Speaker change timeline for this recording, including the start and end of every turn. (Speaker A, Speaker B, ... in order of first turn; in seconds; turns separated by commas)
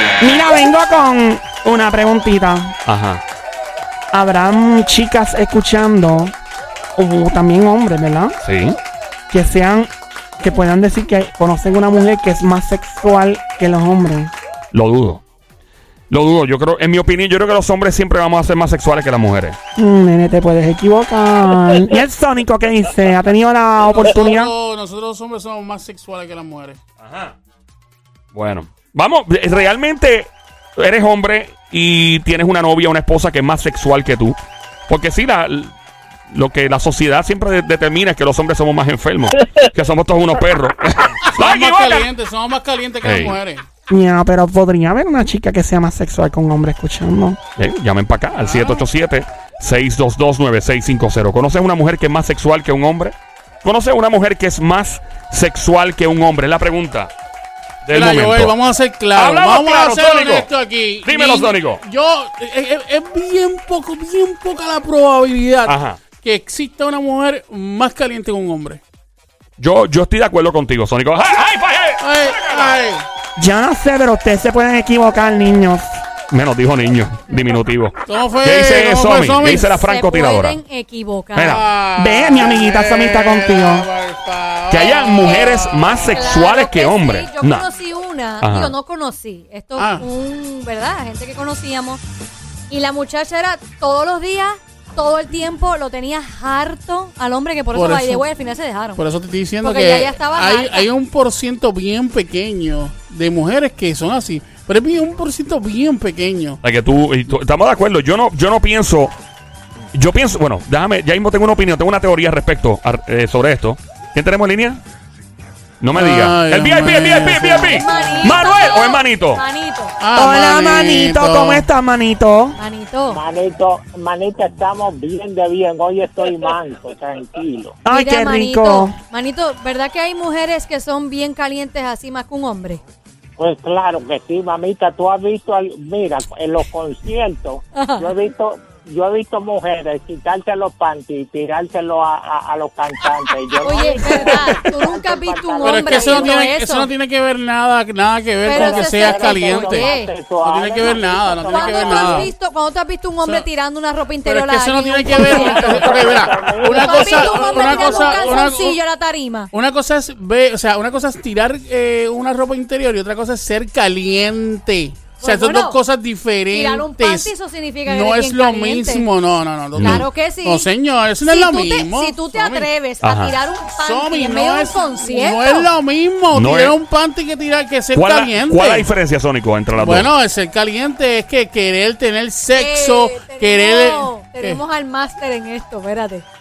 Speaker A: 0.2-2.7, Speaker B: 2.9-3.2, Speaker A: 4.1-6.3, Speaker A: 7.0-8.3, Speaker B: 8.4-8.8, Speaker A: 9.3-14.3, Speaker B: 14.7-15.2, Speaker B: 16.1-19.6, Speaker A: 19.8-24.5, Speaker C: 24.0-26.8, Speaker B: 27.0-27.3, Speaker B: 28.3-34.4, Speaker B: 34.9-35.7, Speaker B: 36.3-42.1, Speaker C: 41.3-43.6, Speaker B: 43.0-43.4, Speaker A: 43.9-47.4, Speaker B: 47.6-57.1, Speaker B: 57.8-58.5, Speaker C: 57.9-68.8, Speaker B: 59.1-60.5, Speaker B: 61.0-61.8, Speaker B: 65.7-66.0, Speaker B: 69.6-72.8, Speaker C: 72.0-73.0, Speaker A: 73.3-76.0, Speaker B: 76.3-80.6, Speaker C: 78.1-79.7, Speaker D: 79.7-81.6, Speaker B: 81.3-81.6, Speaker C: 81.4-86.2, Speaker A: 82.0-83.9, Speaker B: 84.7-87.6, Speaker D: 85.1-92.0, Speaker B: 88.4-88.7, Speaker C: 89.8-90.0, Speaker D: 92.7-99.0, Speaker C: 97.7-98.2, Speaker C: 99.0-106.6, Speaker D: 99.6-100.9, Speaker B: 106.6-109.1, Speaker B: 109.9-114.8, Speaker B: 115.8-119.4, Speaker C: 115.9-118.3, Speaker D: 117.7-119.9, Speaker C: 120.0-121.6, Speaker A: 120.2-122.6, Speaker D: 122.6-123.2, Speaker E: 123.1-127.8, Speaker A: 127.8-128.9, Speaker D: 127.9-132.8, Speaker E: 133.4-146.4, Speaker D: 137.7-138.1, Speaker D: 143.6-146.9, Speaker C: 144.1-144.4, Speaker C: 145.6-149.9, Speaker D: 148.4-150.1, Speaker E: 148.5-152.3, Speaker C: 150.4-152.3, Speaker D: 151.4-159.5, Speaker C: 154.2-158.8, Speaker E: 155.2-158.6, Speaker C: 159.5-167.3, Speaker D: 165.2-165.8, Speaker D: 166.5-169.1, Speaker C: 167.8-172.7, Speaker B: 169.8-170.1, Speaker D: 169.8-170.7, Speaker D: 171.2-175.7, Speaker B: 173.0-173.3, Speaker C: 173.7-178.9, Speaker B: 176.3-176.7, Speaker B: 177.9-180.1, Speaker C: 179.7-184.6, Speaker D: 182.5-186.2